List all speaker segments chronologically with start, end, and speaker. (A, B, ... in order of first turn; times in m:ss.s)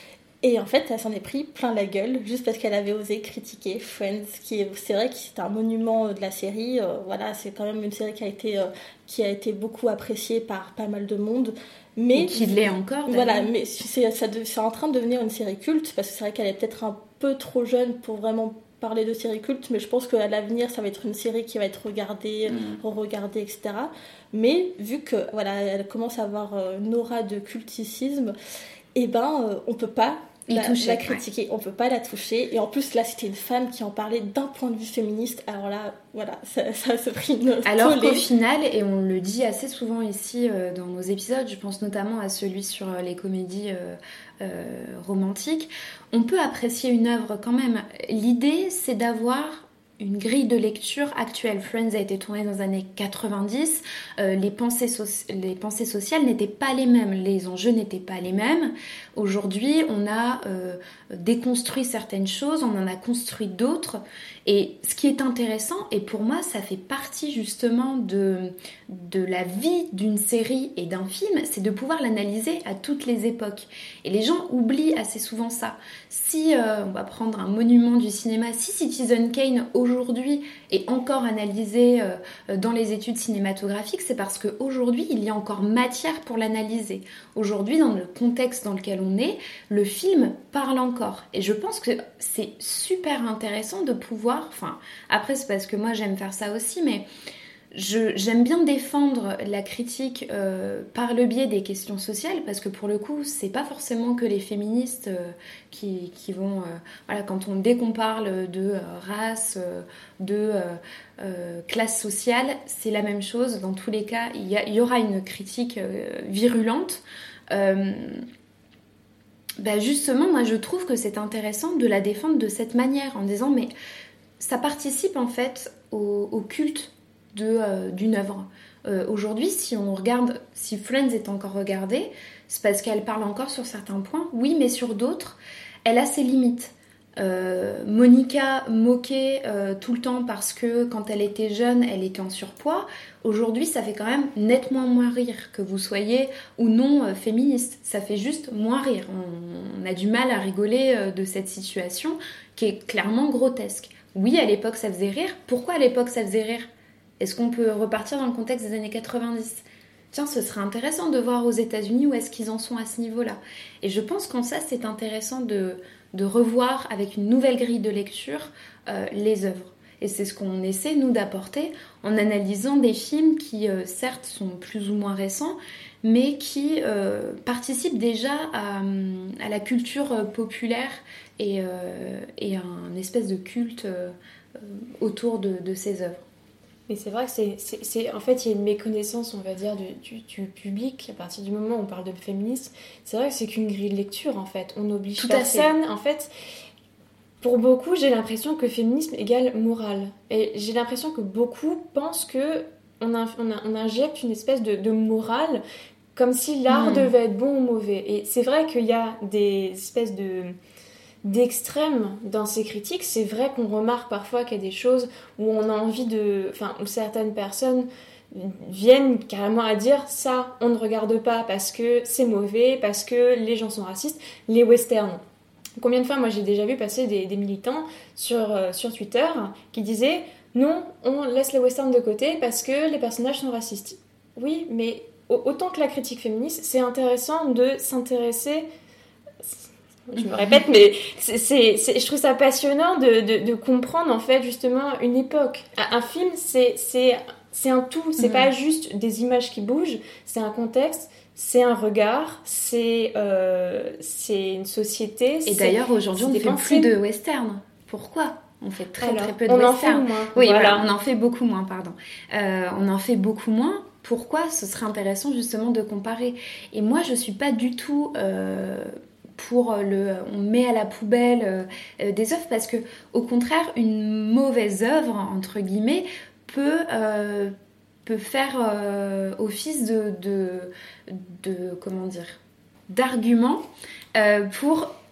0:00.4-0:28.3 A
0:12.1-0:13.5 B
0:22.5-0:22.8 B
0:28.9-0:38.2 A
0:30.5-0:31.2 B
0:37.6-1:37.0 B
1:37.7-1:58.2 B
1:59.6-2:03.7 B
2:04.4-3:06.2 B
3:06.9-3:16.3 C
3:15.2-3:15.7 B
3:17.4-3:25.6 C
3:26.1-3:30.5 C
3:26.7-3:27.1 B
3:31.2-3:45.2 C
3:45.8-3:58.6 C
3:59.4-4:16.9 C
4:08.2-4:08.5 B
4:15.4-4:37.5 B
4:19.0-4:20.9 C
4:38.0-4:44.9 B